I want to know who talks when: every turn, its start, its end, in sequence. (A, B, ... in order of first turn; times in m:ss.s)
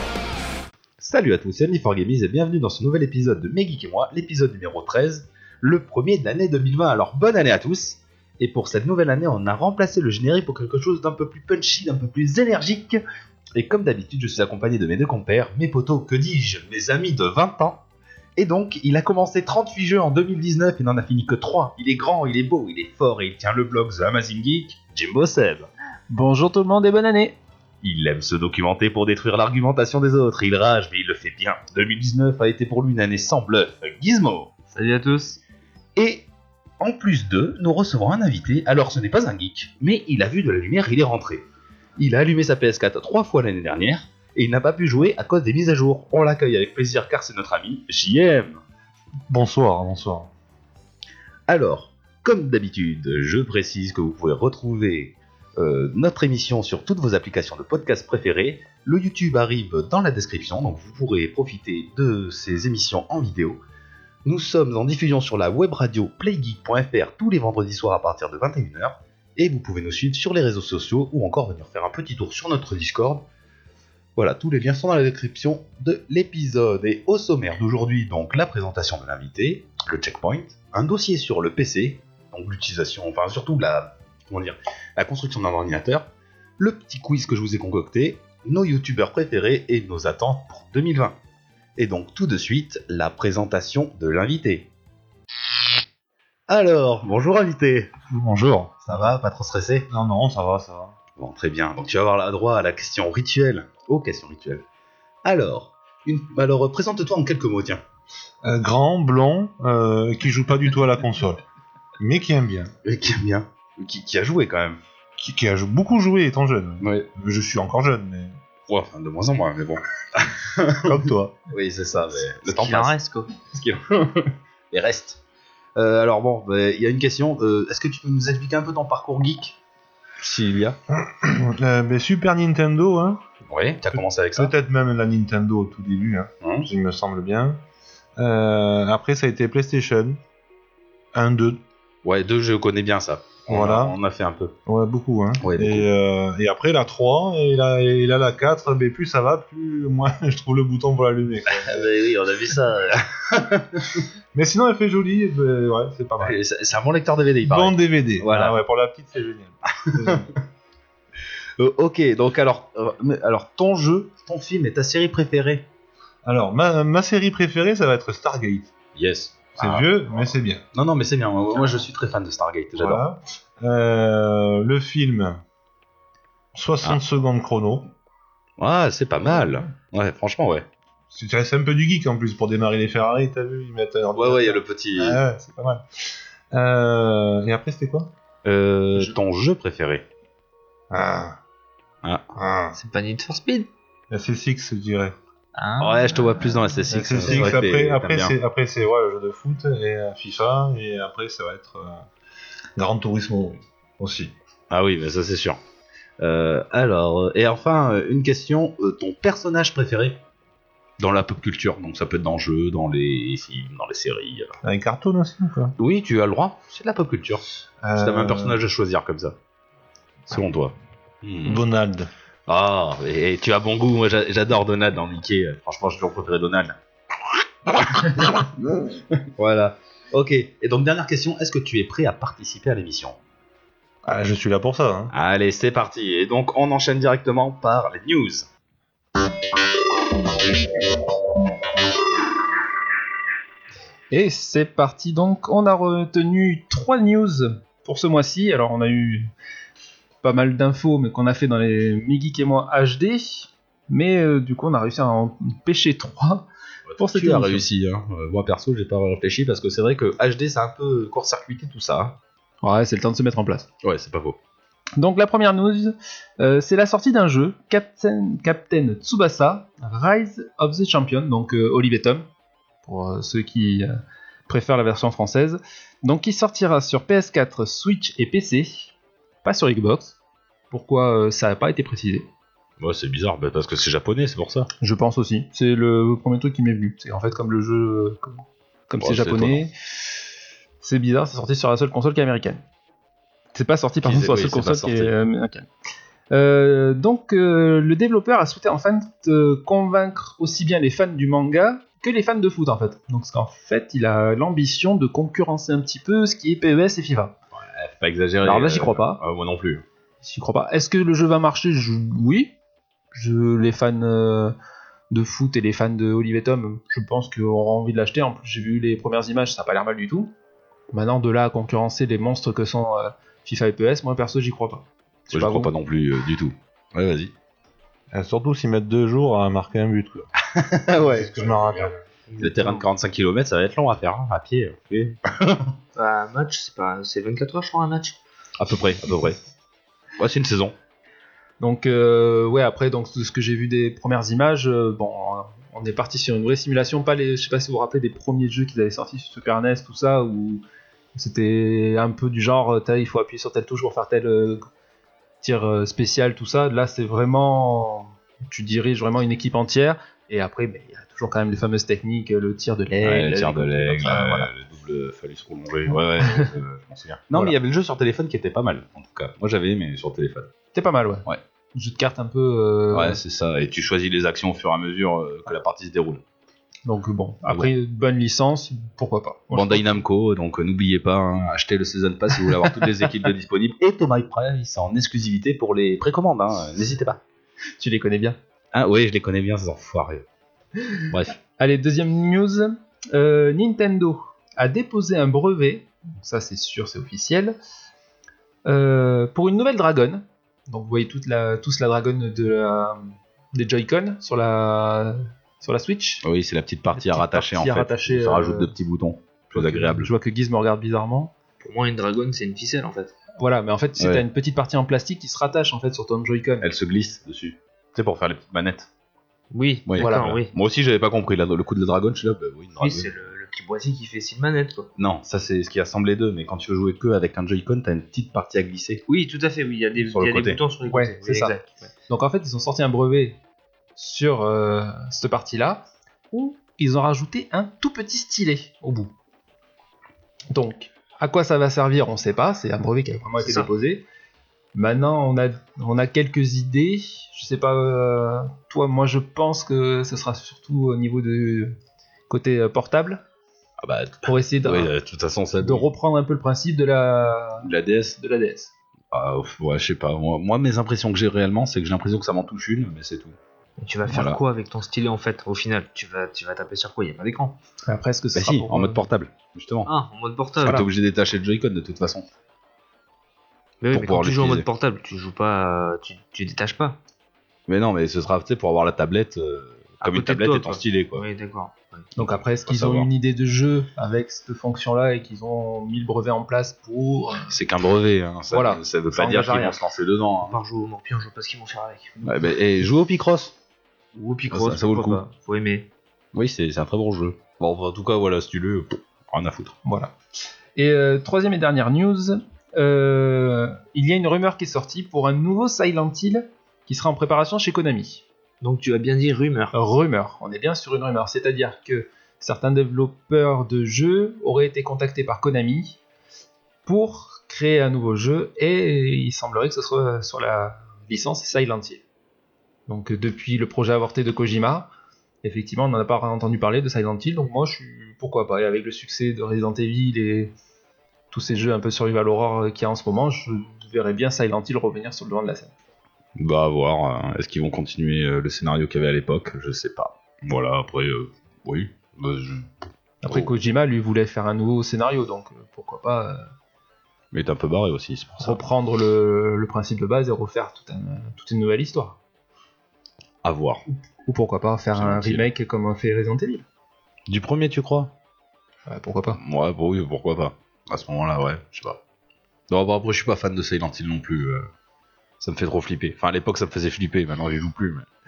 0:01.0-0:13.0 A
0:13.6-0:17.8 A
0:18.4-0:25.7 A
0:26.1-0:27.4 B
0:27.8-0:34.5 A
0:34.7-0:35.4 C
0:36.0-0:36.3 A
0:36.8-0:41.5 A
0:42.0-0:48.6 A
0:49.3-0:50.3 D
0:51.5-1:03.6 A
1:04.2-1:13.3 A
1:14.2-1:31.2 A
1:31.8-1:34.7 A
1:36.5-1:38.1 A
1:38.1-1:39.0 D
1:38.6-1:39.9 A
1:39.9-1:41.0 D
1:41.2-1:44.6 A
1:45.2-1:47.8 A
1:48.4-1:51.4 D
1:52.0-1:52.7 D
1:52.8-1:54.8 A
1:55.2-1:58.4 D
1:56.8-1:57.1 A
1:58.7-2:01.0 A
2:00.8-2:01.4 D
2:01.5-2:05.2 A
2:02.4-2:03.3 C
2:05.8-2:09.6 A
2:10.2-2:10.8 A
2:10.9-2:13.2 D
2:13.5-2:14.5 A
2:13.8-2:17.6 D
2:16.4-2:16.7 A
2:18.2-2:20.2 D
2:21.1-2:21.6 D
2:22.0-2:24.6 A
2:23.5-2:24.0 D
2:24.7-2:31.9 D
2:25.4-2:25.9 A
2:31.5-2:33.9 A
2:34.3-2:36.4 D
2:36.2-2:38.6 A
2:37.4-2:40.3 D
2:39.8-2:40.2 A
2:41.6-2:45.7 A
2:46.2-2:48.7 D
2:48.9-2:53.1 A
2:49.6-2:50.6 D
2:52.8-2:55.4 D
2:56.5-2:57.9 D
2:58.6-3:00.7 A
3:01.1-3:08.1 D
3:04.1-3:05.2 A
3:08.4-3:10.0 A
3:10.9-3:11.4 D
3:12.3-3:12.8 D
3:12.8-3:13.7 C
3:14.1-3:15.2 D
3:15.6-3:16.2 C
3:15.8-3:18.4 A
3:16.9-3:22.1 D
3:22.8-3:24.3 D
3:24.7-3:25.6 A
3:26.2-3:30.2 A
3:31.0-3:34.6 A
3:34.6-3:35.8 D
3:35.8-3:37.4 A
3:37.8-3:38.6 D
3:38.0-3:39.4 A
3:40.3-3:41.6 A
3:41.4-3:42.1 D
3:42.5-3:46.8 A
3:47.7-3:48.1 A
3:48.2-3:49.0 D
3:49.4-3:53.2 A
3:54.0-3:55.1 D
3:55.1-3:58.5 A
4:04.1-4:09.3 B
4:10.2-4:16.4 B
4:16.9-4:22.2 A
4:17.0-4:17.6 B
4:22.6-4:23.7 B
4:23.8-4:24.4 A
4:25.0-4:32.3 B
4:32.8-4:33.9 B
4:34.5-4:38.9 B
4:39.4-4:40.2 B
4:40.7-4:42.3 B
4:42.8-4:44.7 A
4:44.8-4:49.7 B
4:49.0-4:49.6 A
4:50.8-4:52.6 B
4:53.5-4:55.7 B
4:54.0-4:55.1 A
4:56.3-5:07.4 B
5:07.5-5:09.8 A
5:08.4-5:09.2 B
5:10.2-5:12.5 B
5:13.1-5:14.6 B
5:15.1-5:20.3 B
5:20.9-5:25.7 B
5:25.3-5:27.3 A
5:28.1-5:30.3 D
5:30.6-5:31.7 A
5:30.9-5:32.0 D
5:32.3-5:32.8 B
5:32.4-5:35.7 A
5:36.0-5:38.2 C
5:38.6-5:39.4 A
5:40.2-5:40.8 A
5:41.6-5:50.6 B
5:51.1-5:54.7 B
5:55.4-6:04.5 B
6:03.0-6:10.5 A
6:06.2-6:06.5 B
6:10.7-6:13.2 B
6:12.9-6:16.2 A
6:16.9-6:20.0 B
6:19.5-6:27.2 A
6:27.8-6:28.4 B
6:28.7-6:30.3 A
6:31.1-6:31.4 A
6:31.6-6:37.6 B
6:38.7-6:46.2 B
6:46.2-6:50.1 A
6:46.9-6:48.8 B
6:49.5-6:51.3 B
6:51.6-6:53.2 C
6:53.4-6:56.7 B
6:54.0-6:54.2 A
6:56.6-6:58.9 A
6:59.5-7:00.5 C
6:59.9-7:03.1 A
7:00.0-7:00.3 B
7:02.8-7:04.9 C
7:05.0-7:09.0 A
7:09.1-7:11.8 C
7:10.0-7:10.6 A
7:10.9-7:13.4 B
7:14.0-7:19.1 B
7:20.5-7:24.0 B
7:23.4-7:23.7 C
7:24.7-7:31.8 B
7:32.3-7:33.2 B
7:33.8-7:35.9 A
7:34.2-7:34.9 B
7:35.6-7:38.7 B
7:37.6-7:38.2 A
7:39.1-7:43.4 A
7:43.8-7:47.6 C
7:44.0-7:44.4 A
7:47.8-7:49.0 B
7:48.4-7:49.9 A
7:49.9-7:50.9 C
7:50.6-7:52.3 A
7:53.8-7:57.0 C
7:53.9-7:54.7 A
7:57.7-8:01.2 A
8:00.0-8:02.0 C
8:02.2-8:07.5 B
8:02.2-8:03.1 A
8:07.5-8:10.6 A
8:08.5-8:09.8 B
8:10.5-8:12.3 C
8:12.2-8:13.6 A
8:14.2-8:15.9 C
8:14.5-8:15.2 A
8:16.3-8:19.8 A
8:19.8-8:20.1 B
8:20.8-8:28.2 B
8:28.6-8:29.8 C
8:29.7-8:36.0 B
8:36.8-8:42.0 B
8:42.9-8:44.9 B
8:45.4-8:50.6 B
8:51.3-8:55.7 B
8:56.4-9:02.8 A
9:03.2-9:06.5 B
9:07.3-9:08.6 A
9:08.4-9:12.2 B
9:13.4-9:13.8 A
9:13.9-9:16.6 B
9:15.0-9:15.4 A
9:17.3-9:18.1 A
9:18.9-9:19.4 B
9:19.4-9:22.0 A
9:22.7-9:24.7 A
9:25.4-9:28.1 A